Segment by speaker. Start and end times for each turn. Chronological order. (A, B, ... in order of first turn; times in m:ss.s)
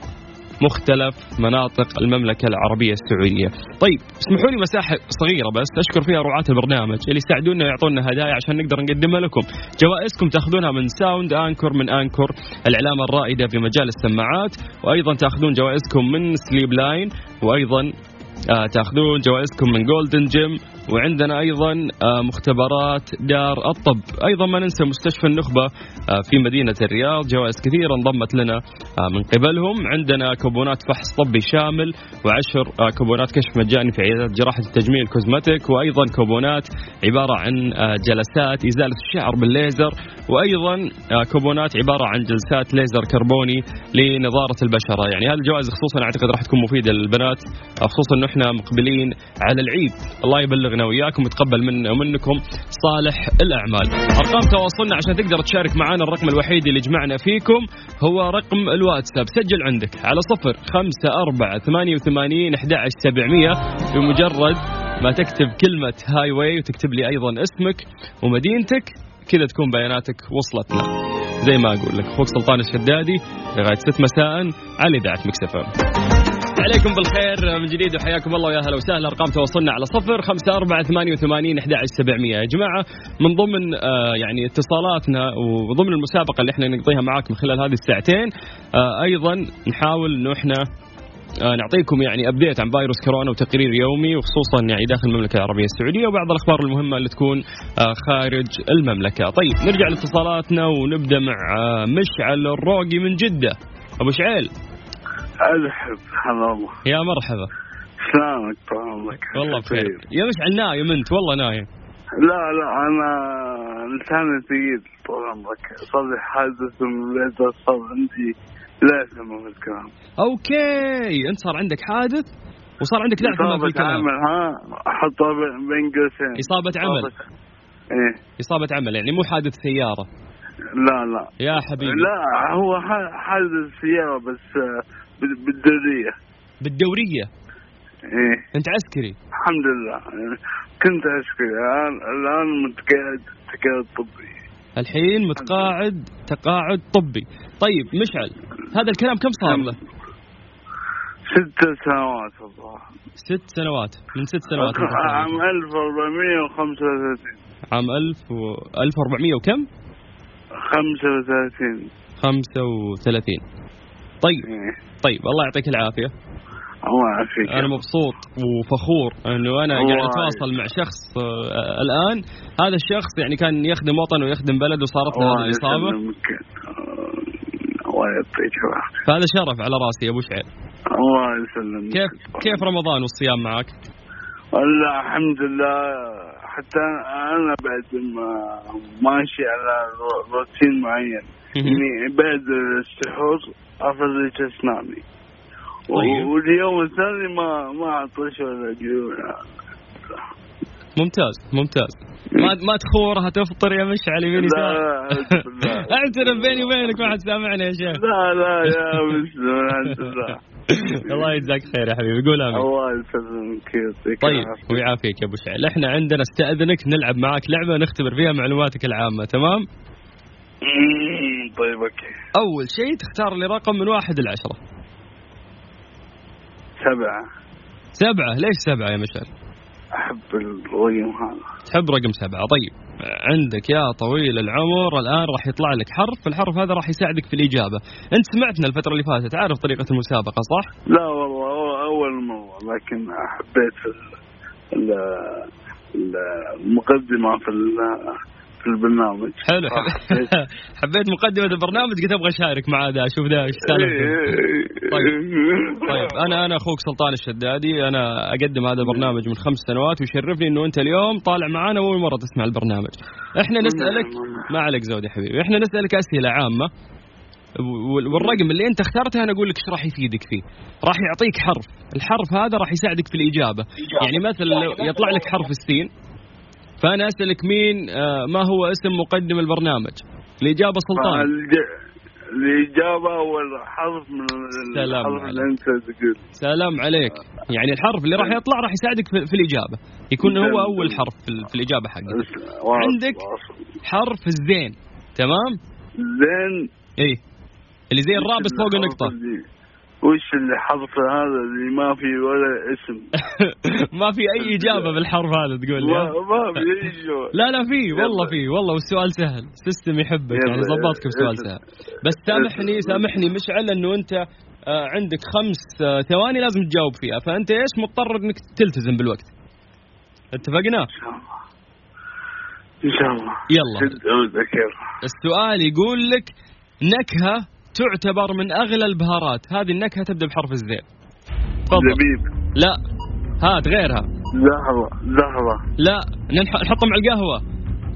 0:00.6-0:17.9 A
0:18.5-1:10.9 A
1:11.4-1:15.7 A
1:16.6-1:30.6 A
1:31.4-1:44.5 A
1:45.4-1:46.8 B
1:46.8-1:47.5 A
1:48.0-1:50.0 B
1:49.3-1:51.7 A
1:52.2-1:59.9 B
2:00.2-2:02.3 A
2:02.8-2:04.0 A
2:03.2-2:07.2 B
2:06.4-2:07.1 A
2:07.9-2:08.2 B
2:08.4-2:10.1 A
2:10.8-2:14.6 B
2:11.4-2:12.1 A
2:15.2-2:16.1 B
2:16.6-2:17.3 A
2:18.1-2:18.4 B
2:18.5-2:19.2 A
2:19.4-2:24.3 B
2:24.8-2:29.8 A
2:25.4-2:25.7 B
2:29.4-2:29.7 B
2:31.3-2:32.8 B
2:33.2-2:35.4 A
2:34.5-2:37.4 B
2:37.7-2:39.7 A
2:40.6-2:41.9 B
2:42.2-2:43.4 A
2:44.4-2:44.8 B
2:45.0-2:46.1 A
2:46.8-2:47.8 B
2:47.4-2:55.9 A
2:49.7-2:50.4 B
2:55.1-2:57.3 B
2:57.9-2:59.0 B
2:59.0-3:00.5 A
3:00.9-3:02.6 B
3:01.9-3:03.7 A
3:04.5-3:15.0 B
3:11.5-3:11.8 A
3:15.9-3:19.4 B
3:15.9-3:16.3 A
3:21.0-3:28.0 A
3:24.4-3:27.1 B
3:27.9-3:30.4 B
3:28.7-3:29.1 A
3:29.8-3:30.1 A
3:30.7-3:32.6 A
3:31.1-3:31.4 B
3:32.5-3:34.8 B
3:34.2-3:39.6 A
3:40.6-3:42.1 B
3:42.4-3:44.6 A
3:46.8-3:47.2 B
3:48.0-3:49.3 A
3:50.0-3:51.4 B
3:51.6-4:00.7 A
4:00.9-4:04.1 B
4:04.7-4:10.3 B
4:09.4-4:14.3 A
4:13.6-4:16.3 B
4:15.8-4:26.7 A
4:23.6-4:24.5 B
4:27.6-4:35.9 A
4:36.8-4:41.3 A
4:40.9-4:41.6 B
4:42.3-4:46.2 B
4:44.7-4:45.5 A
4:46.4-4:52.2 A
4:50.2-4:51.0 B
4:52.1-4:53.6 B
4:52.8-4:53.2 A
4:53.8-4:55.6 A
4:56.0-4:56.6 B
4:57.9-4:59.1 A
4:58.1-4:59.4 B
5:00.0-5:03.0 B
5:03.2-5:06.6 A
5:04.4-5:04.9 B
5:05.8-5:07.3 B
5:07.3-5:19.3 A
5:07.9-5:08.3 B
5:10.3-5:11.5 B
5:12.2-5:13.2 B
5:20.3-5:20.9 A
5:20.9-5:21.3 B
5:22.8-5:24.8 B
5:23.5-5:24.0 A
5:25.0-5:26.3 A
5:26.9-5:30.8 A
5:31.7-5:32.0 A
5:31.7-5:32.2 B
5:33.4-5:34.1 A
5:34.4-5:35.6 B
5:35.8-5:37.4 A